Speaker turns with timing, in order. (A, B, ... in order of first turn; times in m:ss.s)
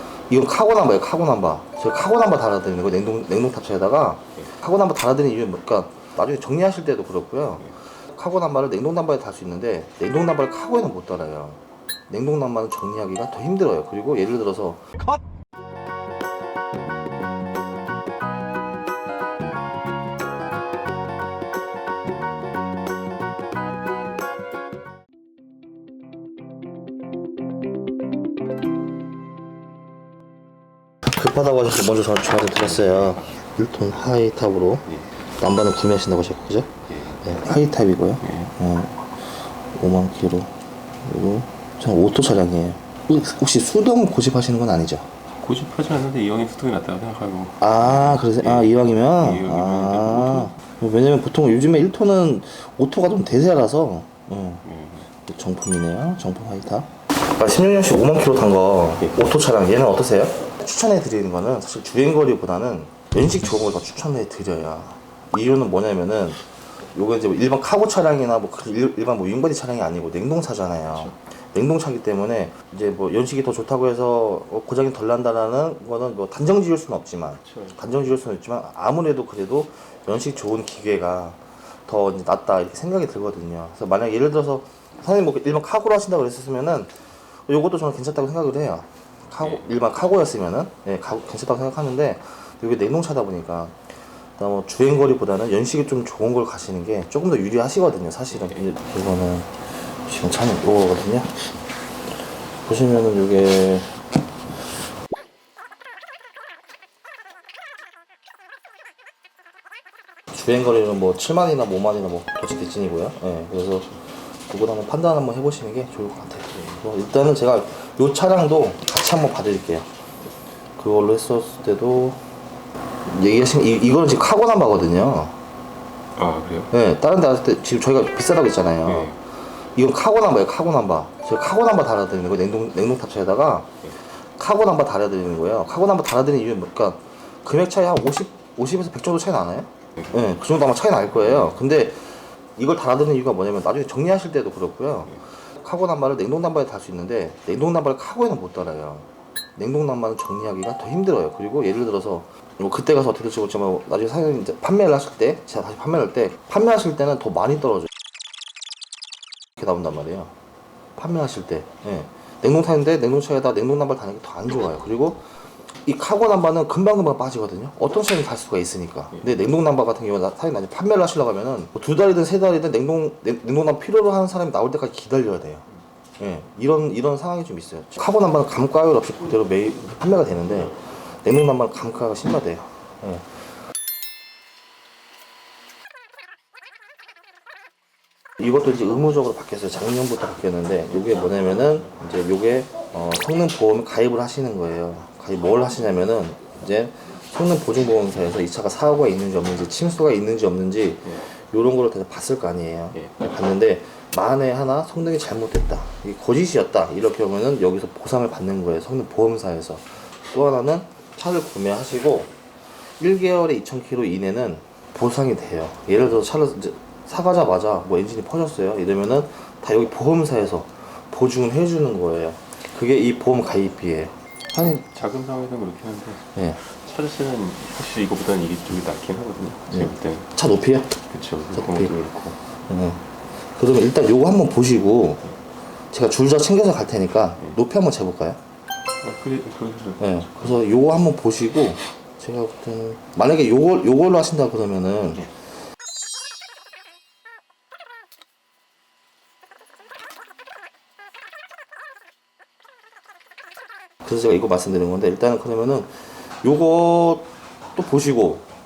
0:00.3-0:14.9 A
0:31.0-0:39.1 A
0:32.9-0:33.2 B
0:36.9-0:37.2 B
0:38.2-0:38.5 B
0:39.7-0:45.1 A
0:45.3-0:50.6 B
0:47.6-1:26.9 A
0:54.6-0:55.1 B
1:17.5-1:17.8 B
1:27.5-1:41.4 A
1:29.4-1:29.8 B
1:38.3-1:38.7 B
1:42.6-1:44.0 A
1:50.3-1:59.9 A
2:00.8-2:02.2 A
2:03.0-2:05.4 A
2:06.2-2:06.7 B
2:06.7-2:09.2 A
2:08.8-2:09.2 B
2:09.8-2:37.9 A
2:39.6-2:40.3 A
2:41.0-2:55.7 A
2:56.2-3:03.3 A
3:08.4-3:32.4 A
3:33.0-3:44.9 A
3:44.7-3:50.3 B
3:46.3-3:46.6 A
3:49.7-3:51.0 A
3:51.1-3:52.4 B
3:51.6-3:52.0 A
3:52.7-3:55.3 A
3:55.9-3:58.4 A
3:59.0-4:00.6 B
4:00.0-4:05.3 A
4:14.0-4:18.5 A